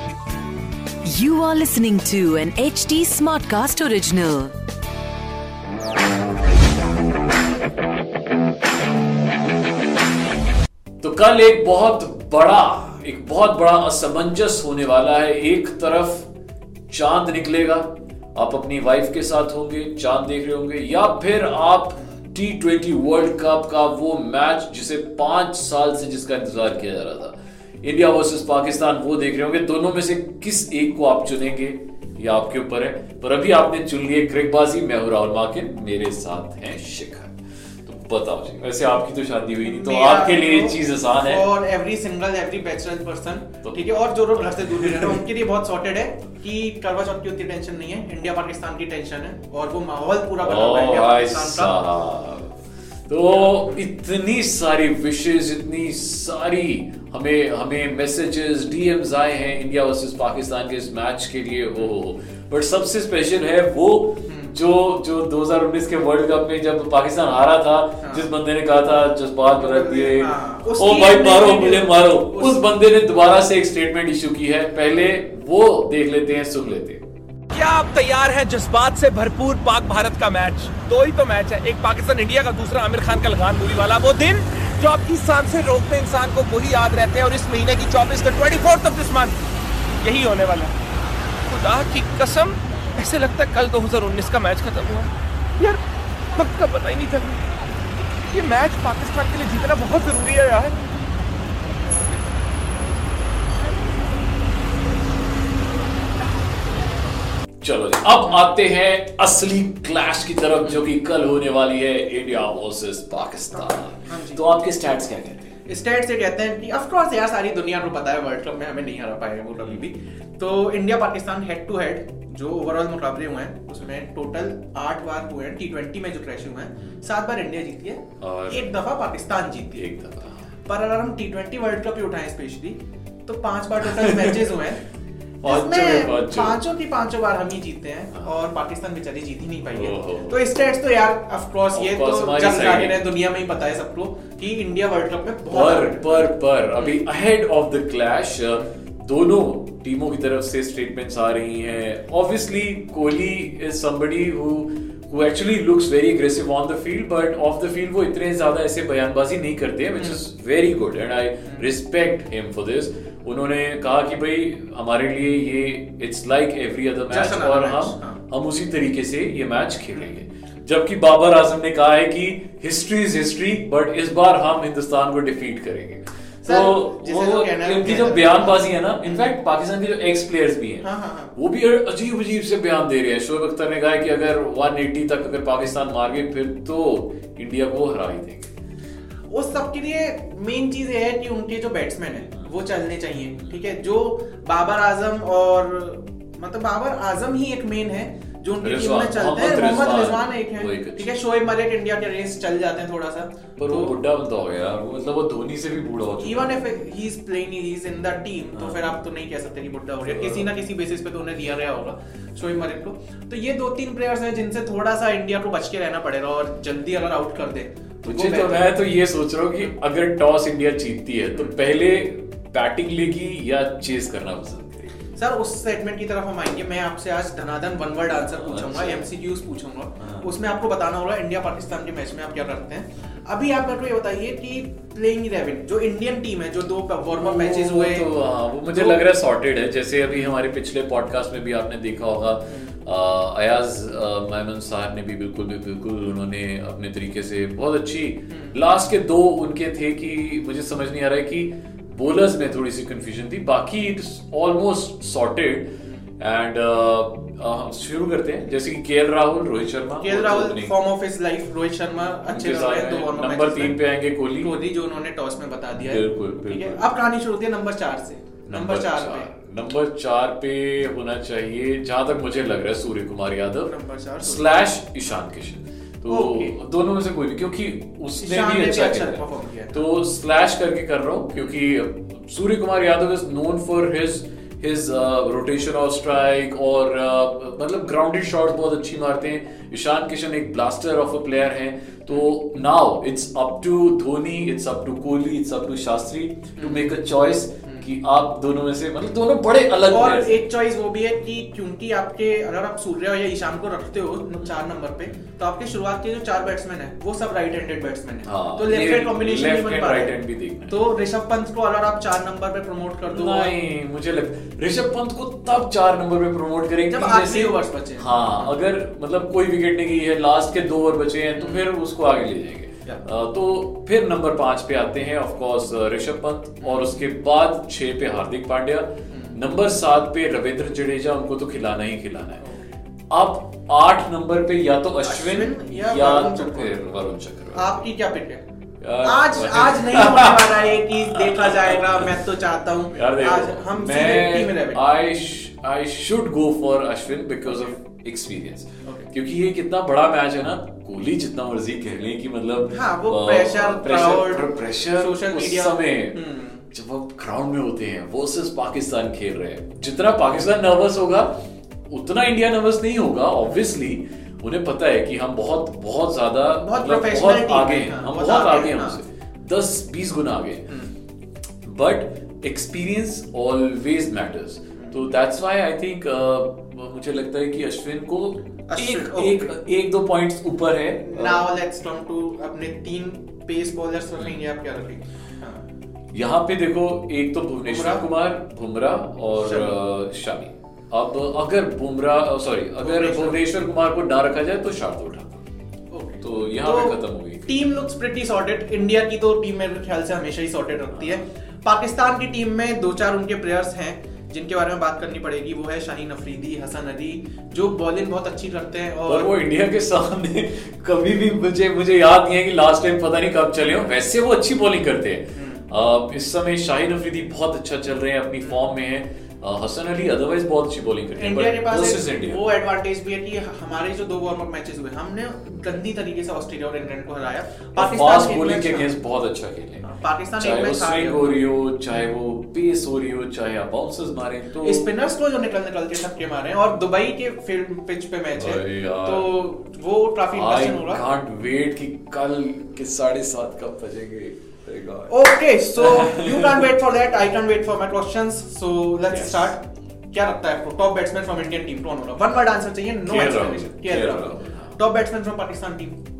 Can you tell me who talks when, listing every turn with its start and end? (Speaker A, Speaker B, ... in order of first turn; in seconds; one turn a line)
Speaker A: 1.1-4.5
Speaker B: 11.0-16.3
Speaker B: 16.9-41.5
Speaker C: 39.6-51.8
Speaker B: 43.7-45.2
Speaker B: 50.4-52.6
Speaker B: 53.1-77.0
Speaker C: 53.3-53.8
Speaker C: 64.3-64.5
Speaker C: 68.0-68.3
Speaker C: 69.5-72.6
Speaker D: 77.5-89.4
Speaker D: 90.0-90.7
Speaker D: 91.5-95.8
Speaker D: 96.3-97.5
Speaker D: 98.2-100.8
Speaker B: 107.6-115.5
Speaker C: 113.6-114.4
Speaker C: 115.7-129.9
Speaker B: 128.2-128.7
Speaker B: 129.8-130.5
Speaker C: 130.7-134.8
Speaker B: 133.9-134.5
Speaker B: 135.4-136.6
Speaker C: 135.4-147.0
Speaker B: 139.7-140.4
Speaker B: 141.7-143.0
Speaker B: 145.5-188.5
Speaker C: 160.0-160.2
Speaker C: 167.1-168.2
Speaker C: 176.4-179.3
Speaker C: 180.8-181.3
Speaker C: 189.3-204.0
Speaker B: 198.6-201.1
Speaker B: 203.6-206.6
Speaker C: 206.2-218.7
Speaker B: 208.5-208.9
Speaker B: 210.1-210.5
Speaker B: 218.0-224.9
Speaker C: 225.2-238.1
Speaker B: 228.2-229.1
Speaker B: 230.0-230.3
Speaker B: 237.1-260.8
Speaker C: 238.7-239.0
Speaker C: 248.3-248.6
Speaker C: 260.0-263.8
Speaker B: 262.3-264.6
Speaker C: 264.4-269.3
Speaker B: 265.9-266.9
Speaker B: 268.5-300.5
Speaker C: 273.6-274.5
Speaker C: 276.1-276.6
Speaker C: 278.2-279.8
Speaker C: 296.6-297.0
Speaker C: 299.9-310.2
Speaker B: 308.2-310.8
Speaker C: 310.7-313.6
Speaker B: 313.1-332.4
Speaker C: 316.9-318.6
Speaker C: 321.3-321.7
Speaker C: 326.6-326.9
Speaker C: 329.1-329.4
Speaker C: 332.4-332.8
Speaker B: 333.1-337.9
Speaker C: 335.0-336.8
Speaker C: 337.6-338.4
Speaker B: 338.8-342.1
Speaker C: 339.0-344.9
Speaker B: 342.9-361.4
Speaker C: 348.9-349.1
Speaker C: 352.7-356.7
Speaker B: 361.9-370.7
Speaker C: 366.6-369.0
Speaker B: 371.6-381.5
Speaker C: 378.7-379.6
Speaker C: 381.0-385.6
Speaker B: 386.1-395.4
Speaker C: 387.6-388.0
Speaker C: 389.4-389.8
Speaker C: 392.8-393.4
Speaker C: 395.9-409.4
Speaker B: 396.2-397.5
Speaker B: 409.1-422.5
Speaker C: 415.4-415.7
Speaker C: 421.1-428.9
Speaker B: 427.8-434.9
Speaker C: 429.8-431.3
Speaker C: 434.6-441.0
Speaker B: 438.3-439.4
Speaker B: 440.3-446.7
Speaker C: 445.1-456.0
Speaker B: 449.1-449.6
Speaker B: 453.1-454.8